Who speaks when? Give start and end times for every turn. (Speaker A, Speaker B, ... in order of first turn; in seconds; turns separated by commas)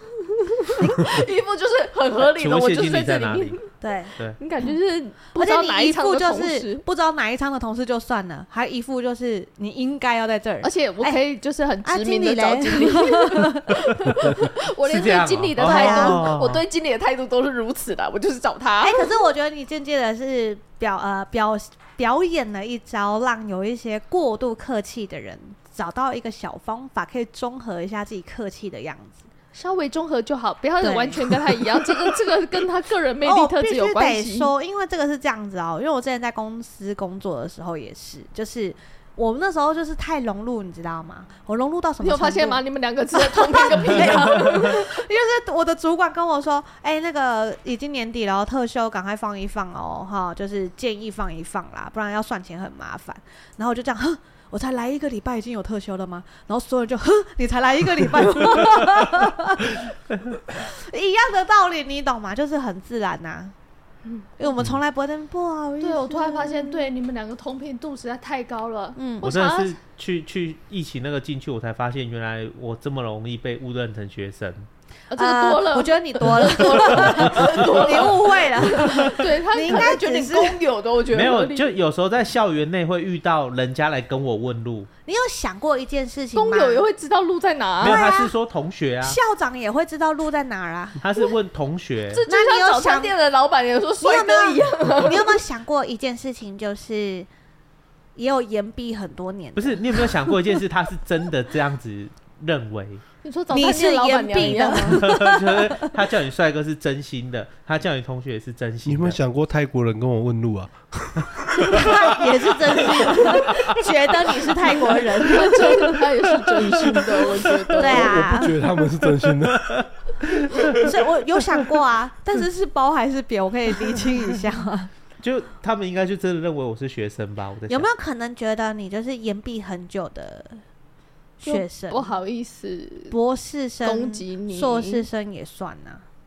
Speaker A: 0.4-3.7, Speaker B: 0.8-1.2, Speaker C: 2.2-3.6, Speaker B: 3.8-4.1, Speaker A: 4.4-6.8, Speaker B: 5.3-11.2, Speaker A: 10.6-19.1, Speaker B: 11.8-14.1, Speaker C: 14.8-16.6, Speaker B: 15.6-16.2, Speaker B: 18.8-29.2, Speaker A: 29.5-34.5, Speaker B: 30.8-31.4, Speaker B: 33.2-42.6, Speaker A: 42.0-44.9, Speaker B: 43.1-59.9, Speaker B: 60.5-63.5, Speaker B: 64.4-66.8, Speaker A: 65.8-69.8, Speaker B: 69.0-69.3, Speaker C: 69.2-74.7, Speaker A: 75.1-81.7, Speaker B: 75.1-80.6, Speaker C: 76.8-78.0, Speaker C: 81.1-84.9, Speaker B: 85.0-86.8, Speaker A: 86.3-88.0, Speaker C: 87.8-89.2, Speaker B: 87.8-88.3, Speaker B: 89.0-91.0, Speaker C: 91.0-92.2, Speaker A: 92.1-95.4, Speaker B: 92.2-93.1, Speaker B: 94.0-97.3, Speaker B: 98.2-100.2, Speaker C: 99.5-103.0, Speaker A: 103.2-105.0, Speaker B: 103.5-105.7, Speaker C: 104.8-109.2, Speaker D: 108.8-112.5, Speaker B: 111.7-116.0, Speaker A: 115.2-118.3, Speaker D: 117.7-119.9, Speaker B: 117.8-118.5, Speaker C: 119.4-120.9, Speaker B: 120.6-124.9, Speaker C: 125.2-127.9, Speaker B: 127.7-130.6, Speaker B: 131.4-132.1, Speaker A: 131.4-133.1, Speaker B: 133.1-136.0, Speaker A: 133.8-135.1